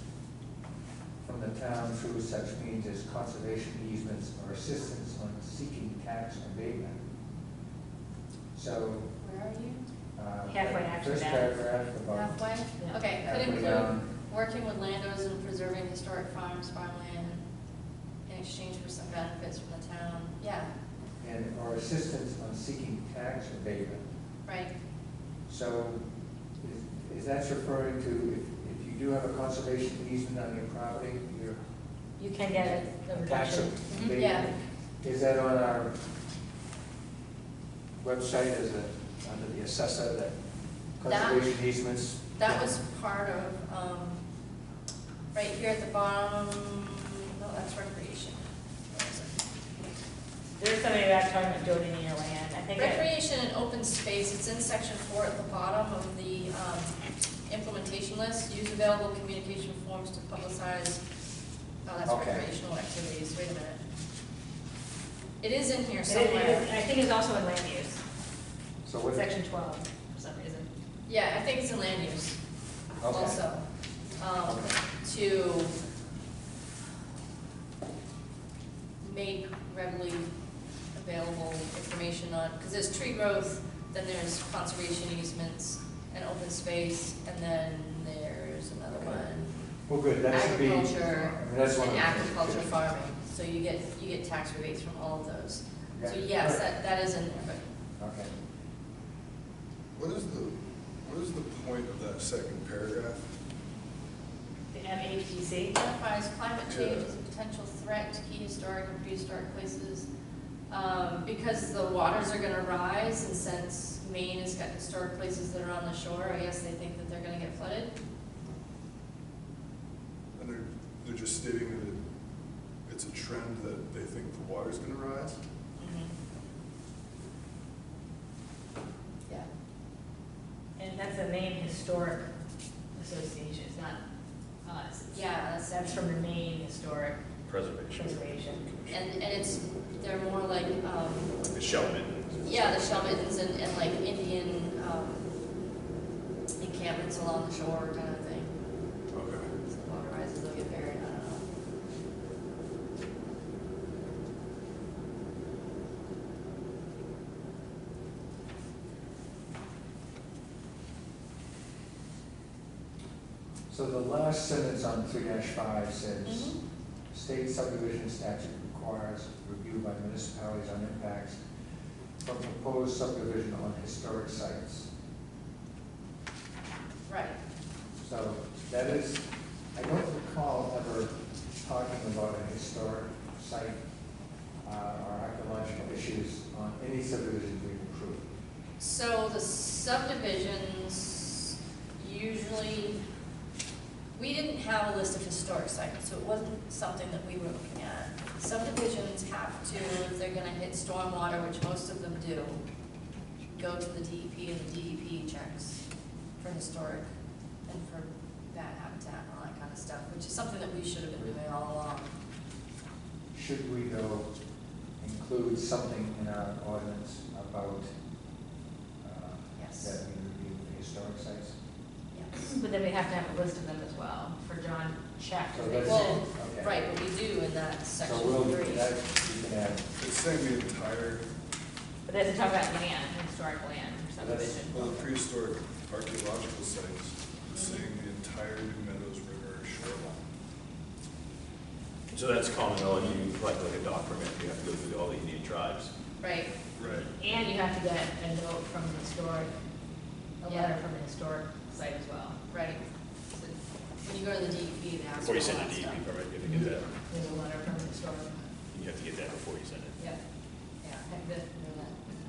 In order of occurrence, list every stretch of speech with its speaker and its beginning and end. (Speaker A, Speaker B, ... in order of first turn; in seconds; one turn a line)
Speaker A: 1.2-7.0
Speaker A: 8.5-9.1
Speaker B: 9.2-9.8
Speaker A: 10.2-12.6
Speaker C: 10.5-11.8
Speaker B: 12.1-17.4
Speaker C: 12.8-13.1
Speaker A: 13.2-14.1
Speaker B: 18.3-20.7
Speaker A: 21.2-24.0
Speaker B: 24.5-24.7
Speaker A: 25.5-26.1
Speaker A: 26.6-31.6
Speaker C: 32.2-34.2
Speaker A: 32.5-36.0
Speaker B: 34.1-34.5
Speaker A: 38.0-40.4
Speaker A: 41.0-42.7
Speaker B: 41.1-41.5
Speaker B: 42.4-44.2
Speaker B: 45.3-49.4
Speaker C: 50.6-53.0
Speaker B: 52.8-57.0
Speaker B: 57.5-61.0
Speaker B: 61.9-63.8
Speaker A: 62.0-62.5
Speaker B: 65.4-66.7
Speaker C: 66.1-68.0
Speaker A: 68.8-69.3
Speaker C: 69.1-70.7
Speaker B: 71.1-72.4
Speaker A: 73.0-73.4
Speaker B: 73.1-73.6
Speaker B: 74.2-75.8
Speaker A: 74.5-74.8
Speaker B: 79.0-80.3
Speaker B: 81.0-89.6
Speaker A: 89.0-89.3
Speaker A: 89.9-92.9
Speaker B: 90.3-97.6
Speaker A: 95.9-96.7
Speaker A: 98.0-98.3
Speaker D: 99.9-103.3
Speaker C: 104.7-105.8
Speaker B: 105.7-110.1
Speaker D: 106.7-107.1
Speaker B: 110.7-117.9
Speaker D: 120.4-122.0
Speaker D: 122.9-125.4
Speaker B: 125.8-126.1
Speaker C: 130.8-132.3
Speaker C: 133.0-134.0
Speaker C: 134.7-137.2
Speaker B: 135.1-136.1
Speaker E: 137.5-139.0
Speaker C: 137.9-138.7
Speaker B: 138.9-141.4
Speaker E: 141.4-143.1
Speaker B: 142.4-145.3
Speaker B: 146.6-148.5
Speaker E: 149.1-149.5
Speaker B: 149.7-151.5
Speaker A: 163.7-166.6
Speaker B: 166.2-166.6
Speaker A: 167.1-171.4
Speaker A: 172.2-174.9
Speaker B: 177.1-177.4
Speaker A: 178.0-183.8
Speaker A: 184.6-188.2
Speaker B: 188.8-193.0
Speaker B: 194.2-202.6
Speaker B: 203.5-205.8
Speaker B: 206.4-207.1
Speaker B: 207.7-212.1
Speaker A: 213.3-214.3
Speaker A: 215.0-217.9
Speaker A: 219.0-221.6
Speaker B: 219.6-220.0
Speaker B: 222.1-222.5
Speaker C: 222.4-226.3
Speaker A: 225.5-226.8
Speaker B: 225.8-228.9
Speaker A: 228.0-229.8
Speaker D: 230.0-231.2
Speaker C: 232.1-234.9
Speaker A: 234.2-235.0
Speaker D: 234.7-240.2
Speaker E: 242.1-245.9
Speaker B: 246.2-246.5
Speaker D: 246.8-247.1
Speaker C: 247.2-249.5
Speaker C: 250.4-252.4
Speaker B: 250.5-250.8
Speaker B: 252.5-252.8
Speaker B: 254.0-256.1
Speaker E: 255.2-257.0
Speaker C: 256.4-258.4
Speaker E: 258.7-260.0
Speaker B: 260.8-261.9
Speaker C: 261.1-262.0